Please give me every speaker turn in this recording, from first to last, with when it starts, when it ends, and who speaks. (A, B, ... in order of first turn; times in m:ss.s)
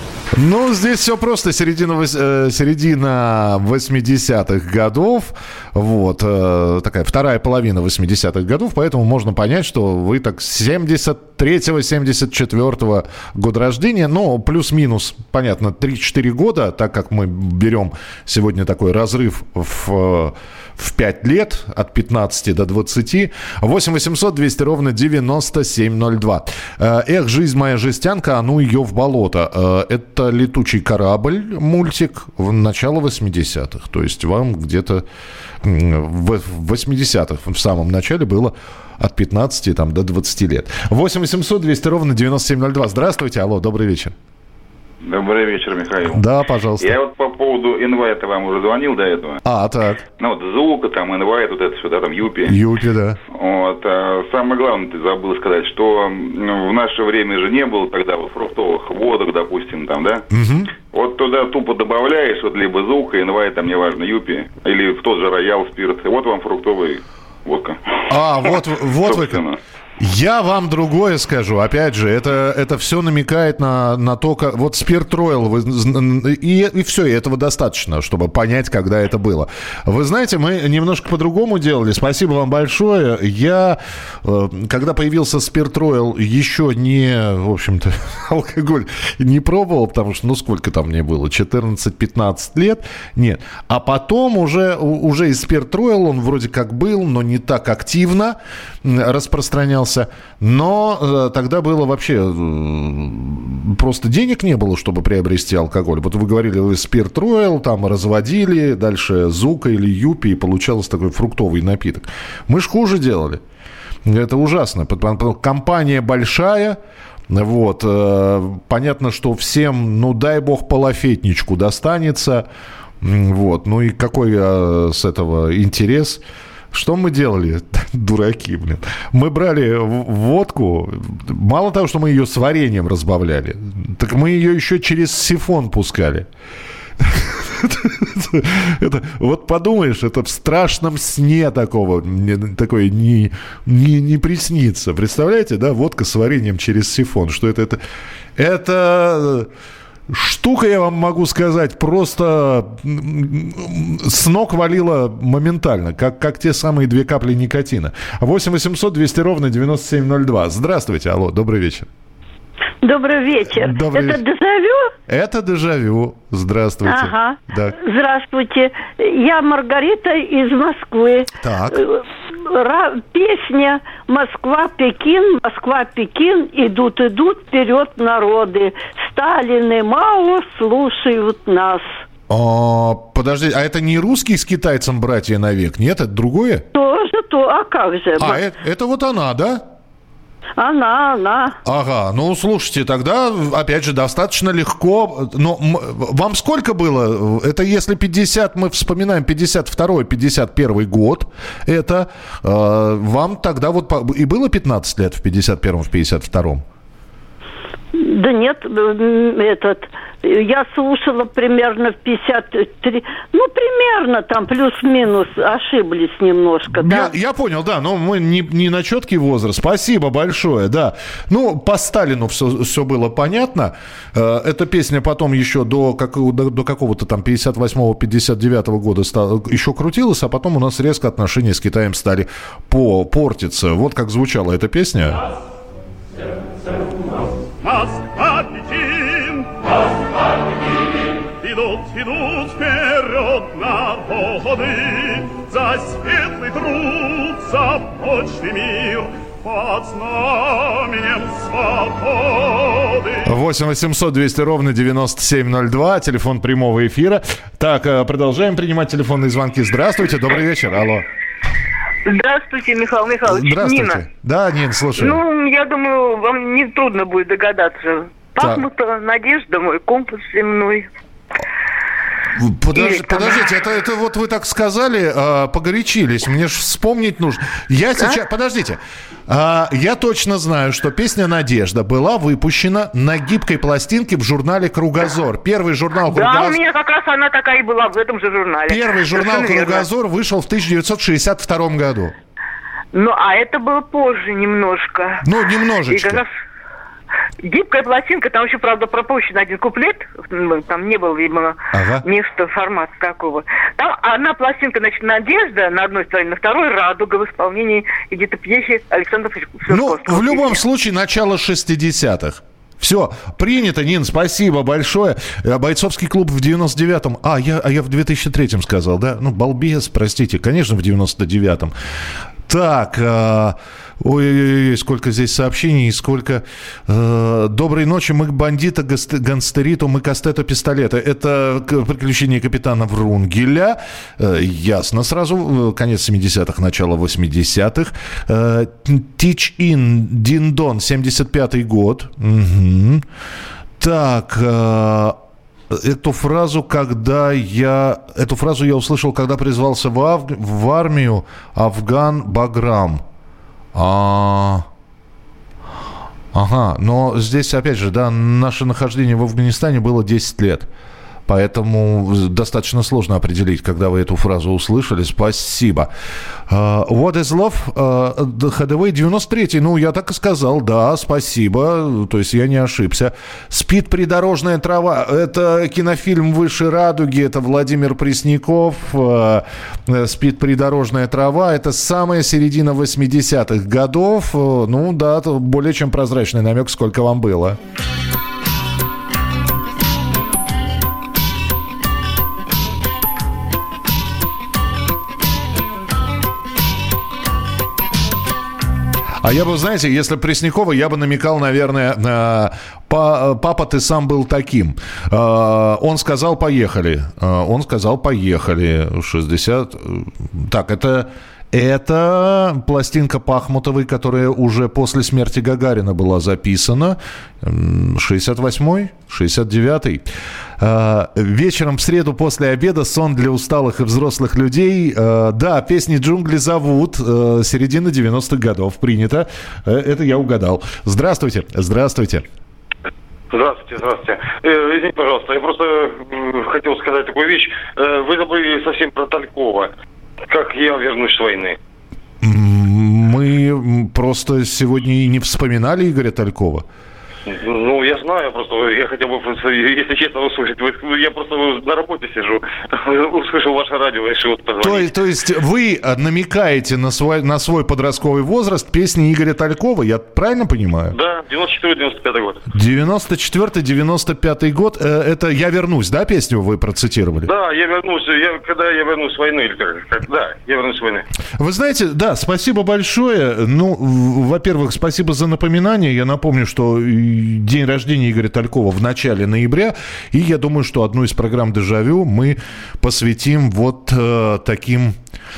0:00.4-0:35.0 A
0:35.6-0:44.1 A
0:45.0-0:46.2 B
0:46.1-0:46.9 A
0:46.8-0:49.4 B
0:49.4-0:50.0 A
0:50.2-0:52.5 B
0:52.4-0:53.2 A
0:53.3-1:00.2 B
1:00.3-1:00.7 A
1:00.9-1:07.8 B
1:08.1-1:09.4 A
1:08.4-1:09.6 B
1:10.0-1:53.4 A
1:54.0-1:56.8 A
1:57.3-2:02.4 A
2:03.0-2:16.3 A
2:17.0-2:27.8 A
2:28.4-2:29.5 A
2:30.1-2:41.8 A
2:42.8-2:44.9 C
2:43.5-2:44.2 A
2:45.1-2:47.8 A
2:46.8-3:02.0 C
2:51.4-2:51.8 A
3:02.3-3:06.6 A
3:06.7-3:08.4 C
3:08.2-3:09.6 A
3:10.6-3:11.6 C
3:11.6-3:26.6 A
3:28.0-3:37.1 C
3:36.7-3:55.2 A
3:57.6-3:59.5 D
4:01.4-4:13.2 D
4:13.2-4:21.0 A
4:22.0-4:24.0 E
4:23.3-4:25.2 A
4:25.0-4:30.9 E
4:28.4-4:28.6 A
4:32.4-4:46.6 A
4:32.7-4:33.4 E
4:46.1-4:49.8 E
4:48.7-4:52.1 A
4:52.9-4:55.2 E
4:55.2-4:56.2 A
4:55.9-4:56.3 E
4:57.4-5:10.6 E
5:01.7-5:02.0 A
5:09.7-5:21.7 A
5:22.5-5:43.0 A
5:43.8-5:45.2 A
5:45.7-5:53.0 A
5:53.7-5:54.6 A
5:56.3-6:00.7 A
6:01.3-6:05.9 A
6:06.5-6:27.6 A
6:39.2-7:00.0 A
7:00.6-7:12.2 A
7:13.3-7:19.7 F
7:20.3-7:21.6 F
7:22.2-7:26.6 A
7:27.3-7:34.9 F
7:34.6-7:40.9 A
7:40.9-7:42.4 F
7:42.5-7:47.3 A
7:47.2-7:51.0 F
7:51.4-8:05.0 A